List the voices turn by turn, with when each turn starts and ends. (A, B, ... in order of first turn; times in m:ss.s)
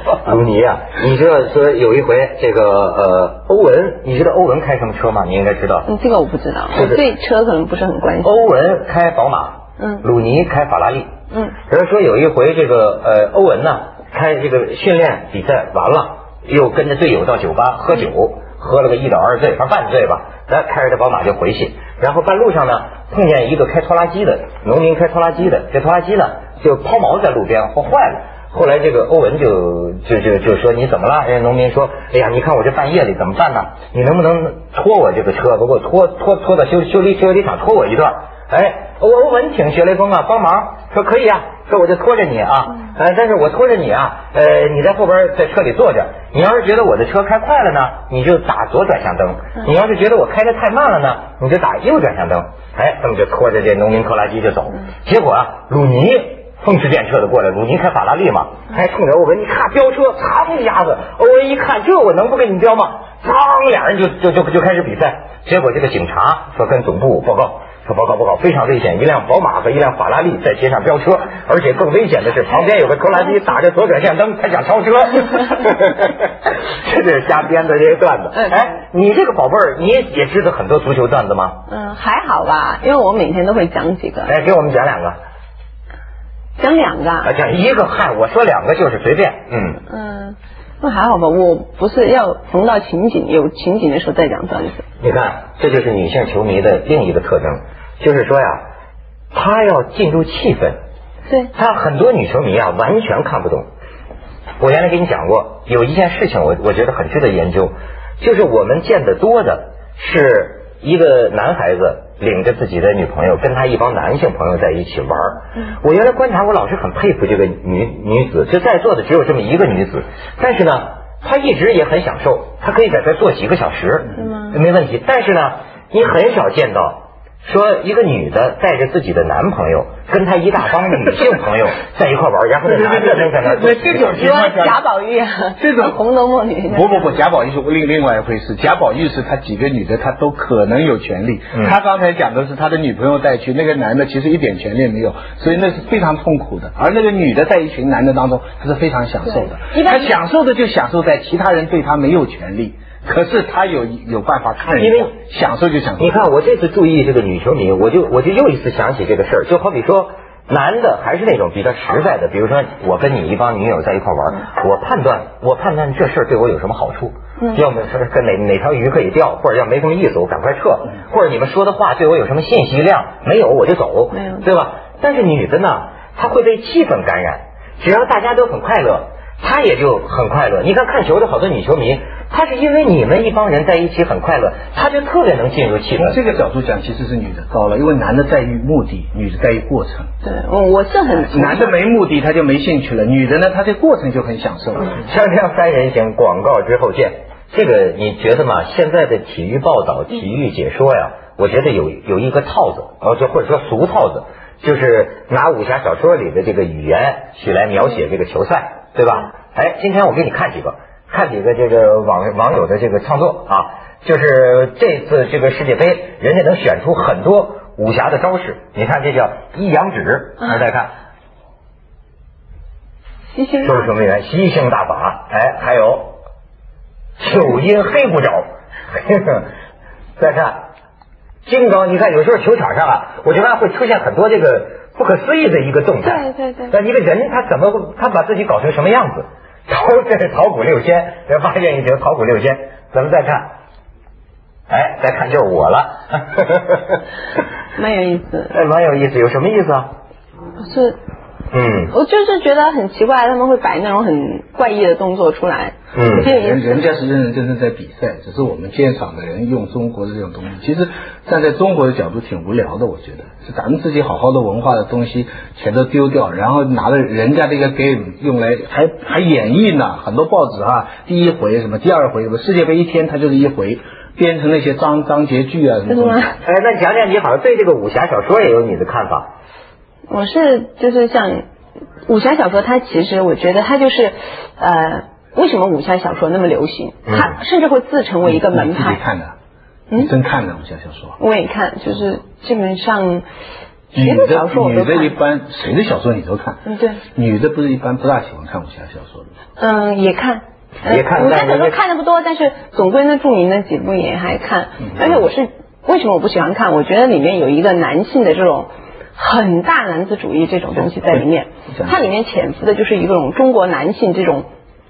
0:00.2-0:05.9 A
0:05.8-0:08.5 B
0:06.7-0:07.0 A
0:08.2-0:11.1 A
0:09.8-0:10.0 B
0:11.7-1:21.6 A
1:18.3-1:18.7 B
1:21.7-1:24.3 B
1:24.2-1:25.2 A
1:26.6-1:27.3 B
1:27.2-1:29.8 A
1:29.9-1:34.8 B
1:35.0-1:38.6 A
1:39.3-1:40.8 A
1:41.5-1:43.7 A
1:44.6-2:14.3 A
2:04.2-2:04.6 B
2:12.6-2:14.8 C
2:14.1-2:17.2 B
2:15.6-2:16.0 C
2:16.7-2:36.3 C
2:29.3-2:30.1 B
2:34.8-2:35.1 A
2:36.0-3:06.2 A
2:54.1-2:54.4 B
3:06.0-3:10.1 C
3:10.2-3:11.7 B
3:11.2-3:15.0 C
3:14.8-3:40.9 A
3:43.3-3:43.9 B
3:43.6-3:46.2 A
3:47.2-3:49.5 A
3:50.2-3:50.6 A
3:51.4-4:03.5 A
3:56.0-3:56.7 B
4:04.7-4:07.0 A
4:07.7-4:08.5 B
4:08.5-4:09.9 A
4:10.6-4:11.0 B
4:11.5-4:11.9 A
4:11.9-4:16.8 B
4:15.9-4:16.3 A
4:16.1-4:36.2 C
4:35.9-4:36.4 B
4:36.4-4:39.3 A
4:40.1-4:41.4 B
4:42.0-4:49.0 B
4:48.2-4:49.3 C
4:50.0-4:51.2 C
4:51.2-4:53.2 B
4:53.9-4:56.6 C
4:53.9-4:55.1 B
4:56.6-4:57.0 B
4:57.1-4:59.3 C
4:59.6-5:14.5 B
5:00.9-5:01.8 A